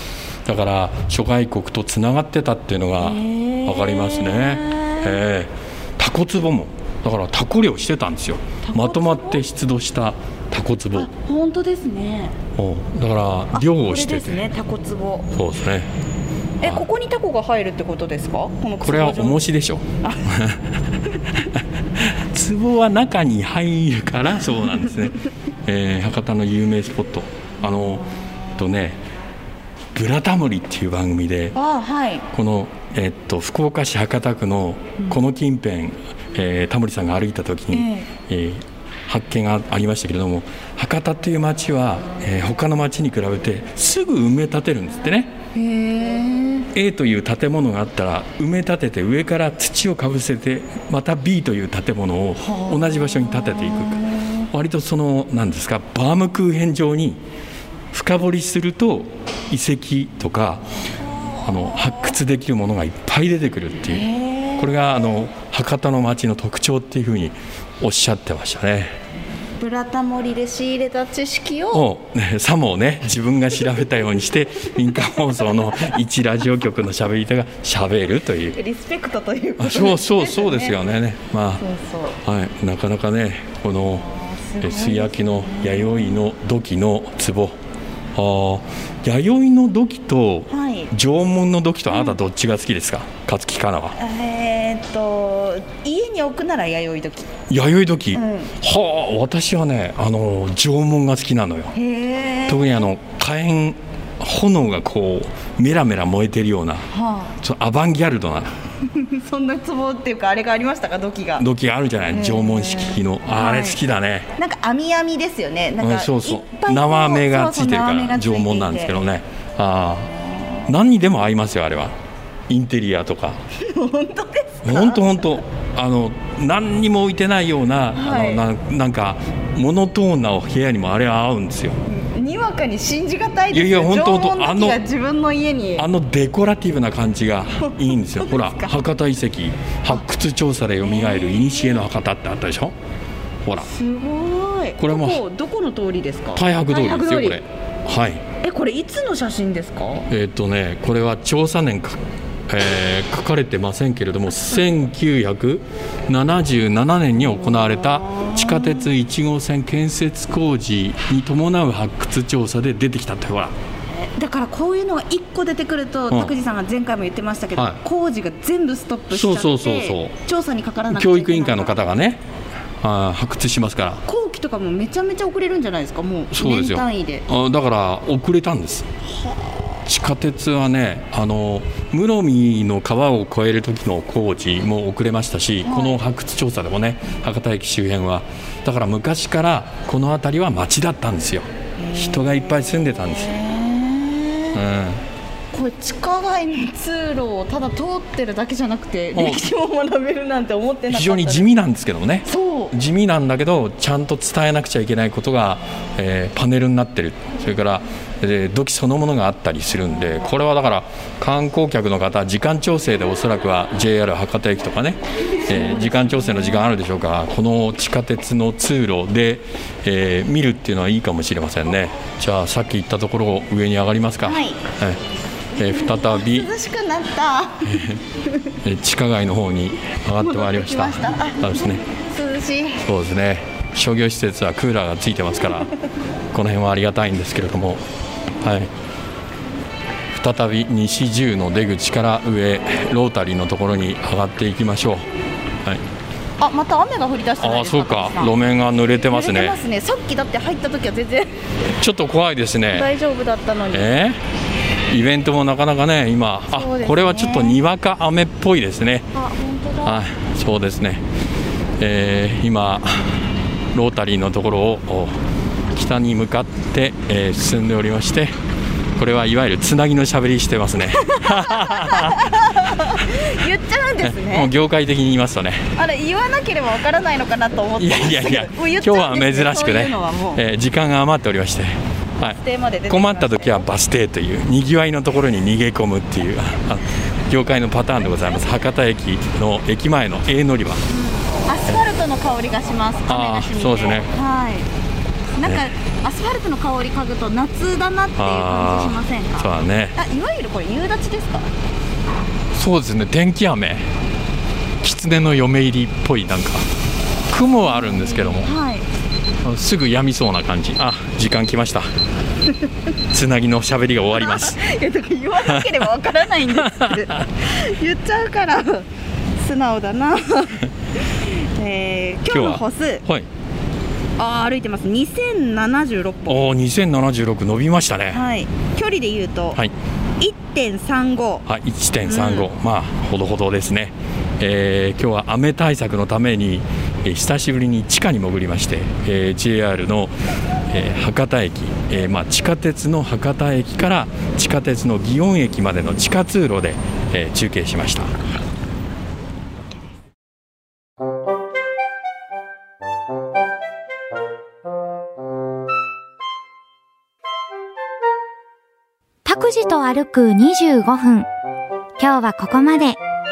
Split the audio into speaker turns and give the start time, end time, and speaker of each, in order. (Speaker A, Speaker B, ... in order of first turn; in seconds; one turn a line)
Speaker A: 0.5-11.1
Speaker B: 3.0-5.2
Speaker B: 8.6-9.4
Speaker B: 10.9-12.4
Speaker A: 12.6-14.5
Speaker B: 13.5-15.3
Speaker A: 15.3-15.9
Speaker B: 16.6-19.4
Speaker A: 16.6-16.9
Speaker A: 18.8-20.7
Speaker A: 21.3-29.0
Speaker B: 27.6-28.6
Speaker A: 29.9-31.6
Speaker B: 31.5-32.2
Speaker A: 32.3-45.3
Speaker B: 37.7-38.1
Speaker B: 45.5-46.7
Speaker A: 46.7-54.0
Speaker B: 52.4-54.5
Speaker A: 54.5-57.2
Speaker A: 57.9-60.6
Speaker B: 61.1-62.1
Speaker A: 61.4-64.0
Speaker B: 63.9-64.8
Speaker A: 64.6-69.0
Speaker B: 69.6-71.9
Speaker A: 71.7-78.6
Speaker B: 78.5-80.8
Speaker A: 79.6-81.6
Speaker B: 81.6-82.2
Speaker A: 82.2-84.1
Speaker B: 83.8-86.2
Speaker A: 84.6-87.6
Speaker A: 88.1-94.0
Speaker B: 90.5-90.9
Speaker B: 93.9-97.3
Speaker A: 97.5-101.7
Speaker B: 98.1-98.5
Speaker B: 101.7-102.8
Speaker A: 102.5-106.9
Speaker B: 106.9-107.3
Speaker A: 107.4-108.5
Speaker B: 108.9-111.5
Speaker A: 111.4-114.3
Speaker B: 112.1-113.8
Speaker B: 114.4-119.0
Speaker A: 115.8-120.1
Speaker B: 120.1-120.7
Speaker A: 120.7-122.0
Speaker A: 122.5-123.4
Speaker B: 123.6-125.4
Speaker A: 124.6-131.8
Speaker B: 127.9-128.4
Speaker B: 131.9-135.9
Speaker A: 133.5-134.8
Speaker A: 135.8-142.7
Speaker B: 137.6-138.9
Speaker B: 140.8-141.8
Speaker B: 143.6-147.4
Speaker A: 144.8-145.2
Speaker A: 146.3-148.2
Speaker B: 148.4-150.1
Speaker A: 150.1-163.5
Speaker B: 157.6-158.9
Speaker B: 163.9-171.8
Speaker A: 169.1-170.1
Speaker A: 170.9-172.2
Speaker A: 172.8-174.0
Speaker B: 174.0-177.3
Speaker A: 176.3-178.9
Speaker B: 179.3-179.7
Speaker A: 179.8-193.3
Speaker B: 185.6-186.0
Speaker B: 191.8-194.6
Speaker A: 194.5-195.0
Speaker B: 195.5-201.5
Speaker A: 199.1-199.4
Speaker A: 200.9-225.0
Speaker B: 202.2-202.7
Speaker B: 215.4-216.6
Speaker B: 224.2-224.6
Speaker A: 225.6-226.5
Speaker B: 225.6-228.5
Speaker A: 227.6-228.0
Speaker A: 228.6-231.8
Speaker B: 230.2-232.9
Speaker A: 232.8-235.7
Speaker A: 236.3-237.8
Speaker A: 238.4-238.7
Speaker A: 240.1-245.1
Speaker B: 246.4-248.3
Speaker A: 247.4-249.6
Speaker B: 249.1-251.4
Speaker A: 251.8-252.9
Speaker B: 252.7-253.9
Speaker A: 253.7-254.2
Speaker A: 254.9-259.1
Speaker B: 256.5-257.6
Speaker B: 259.1-260.0
Speaker A: 259.8-261.0
Speaker A: 261.8-265.2
Speaker A: 265.7-268.3
Speaker A: 268.9-272.3
Speaker B: 270.9-274.5
Speaker A: 274.0-275.7
Speaker B: 275.7-280.4
Speaker A: 277.8-290.8
Speaker B: 282.2-283.7
Speaker B: 290.9-294.7
Speaker A: 293.1-294.1
Speaker B: 295.4-301.5
Speaker A: 298.2-299.9
Speaker A: 302.5-303.9
Speaker A: 304.8-306.6
Speaker A: 307.3-308.5
Speaker B: 307.7-308.9
Speaker A: 309.4-311.9
Speaker A: 313.1-314.6
Speaker B: 314.2-323.1
Speaker A: 316.6-317.0
Speaker A: 322.3-323.3
Speaker B: 324.2-326.4
Speaker A: 326.3-328.2
Speaker B: 328.1-329.6
Speaker B: 330.2-331.4
Speaker A: 331.4-340.2
Speaker B: 332.1-332.5
Speaker A: 340.7-348.1
Speaker C: 359.2-361.3
Speaker C: 362.0-363.0